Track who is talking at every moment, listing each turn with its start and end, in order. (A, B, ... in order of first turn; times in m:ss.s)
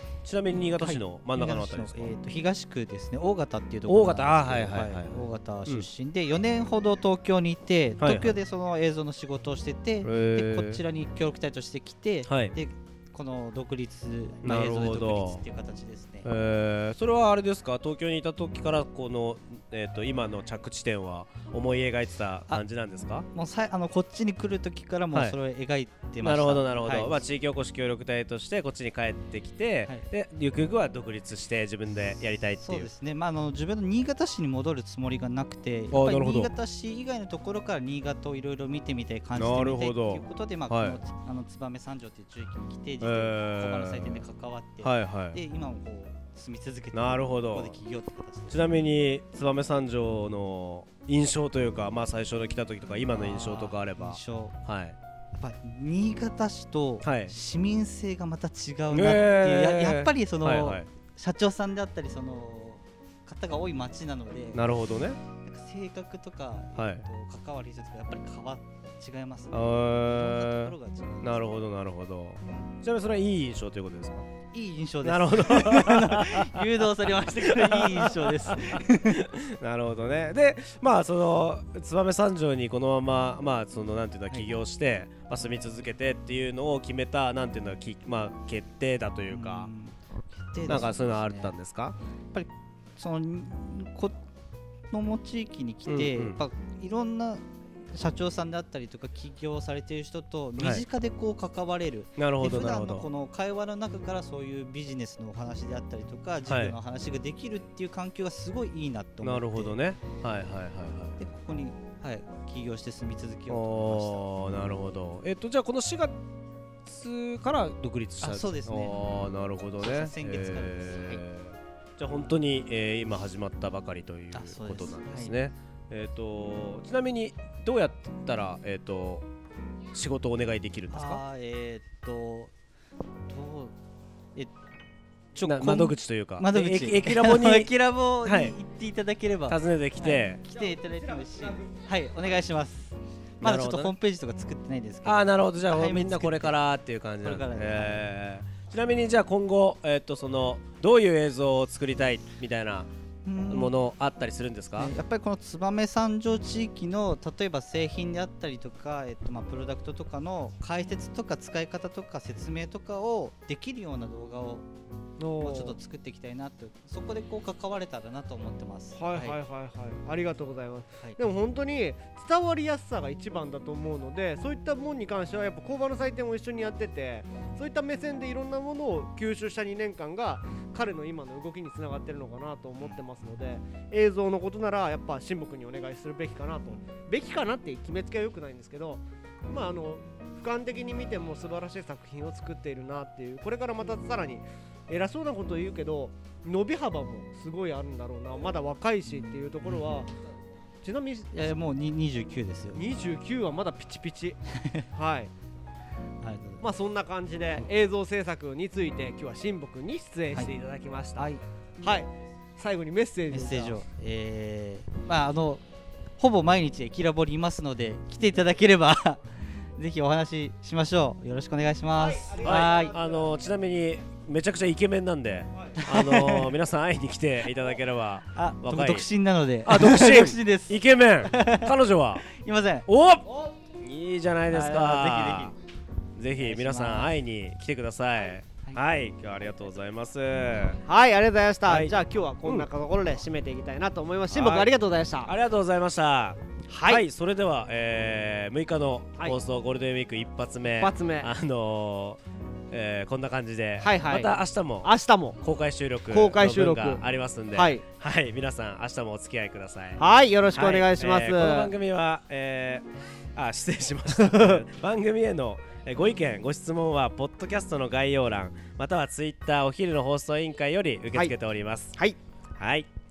0:00.2-0:02.1 A
0:00.7-0:16.3 B
0:03.9-0:05.9 A
0:08.0-0:08.4 A
0:10.0-0:10.8 A
0:12.3-0:12.6 A
0:14.4-0:15.4 A
0:16.2-0:23.3 A
0:23.3-0:27.2 B
0:26.2-0:32.9 A
0:32.6-0:48.8 B
0:35.9-0:36.5 A
0:39.4-0:41.0 A
0:43.0-0:44.2 A
0:44.8-0:45.4 A
0:46.9-0:47.8 A
0:48.5-0:55.0 A
0:53.1-0:54.6 B
0:55.3-1:04.6 B
0:57.0-0:57.3 A
0:58.9-1:00.9 A
1:04.5-1:05.2 A
1:05.4-1:11.6 B
1:06.8-1:07.0 A
1:09.5-1:14.3 A
1:14.5-1:19.2 B
1:15.0-1:29.7 A
1:29.3-1:31.6 B
1:30.7-1:32.0 A
1:32.3-1:34.2 B
1:34.9-1:49.8 B
1:35.9-1:36.4 A
1:40.6-1:40.8 A
1:42.2-1:43.1 A
1:46.5-1:46.8 A
1:49.2-1:51.2 A
1:51.2-1:54.3 B
1:53.5-1:56.2 A
1:56.8-2:09.3 A
1:58.2-1:59.0 B
1:59.8-2:01.2 B
2:04.3-2:05.4 B
2:09.9-2:11.2 A
2:10.9-2:12.5 B
2:13.3-2:13.8 B
2:15.4-2:26.6 B
2:15.4-2:17.7 A
2:18.2-2:18.6 A
2:19.5-2:20.4 A
2:20.6-2:21.7 C
2:23.4-2:23.9 A
2:25.0-2:32.9 A
2:27.2-2:28.1 B
2:33.2-2:33.8 B
2:33.5-2:34.9 A
2:34.8-2:44.7 B
2:45.2-2:45.8 C
2:45.4-2:49.4 B
2:49.0-3:20.1 C
3:19.6-3:20.0 B
3:20.8-3:21.6 C
3:21.3-3:22.8 B
3:22.7-3:24.4 C
3:24.6-3:24.8 B
3:24.9-3:25.3 C
3:26.2-3:26.7 B
3:26.6-3:31.3 C
3:31.2-3:31.4 B
3:31.8-3:33.8 C
3:33.3-3:35.6 B
3:36.2-3:43.0 B
3:42.0-3:43.2 C
3:42.4-3:49.1 A
3:45.8-3:46.6 B
3:48.3-3:51.7 B
3:49.6-3:52.3 A
3:52.3-3:52.9 B
3:52.9-3:55.6 A
3:53.3-3:53.6 C
3:54.5-3:55.6 B
3:56.2-4:00.8 A
3:56.3-3:57.1 B
4:00.8-4:05.3 C
4:01.7-4:02.7 A
4:04.3-4:04.7 A
4:05.2-4:32.0 A
4:06.7-4:07.0 C
4:10.8-4:11.3 C
4:13.8-4:15.4 C
4:16.1-4:17.8 C
4:20.0-4:21.7 C
4:24.2-4:24.6 C
4:32.6-4:32.9 A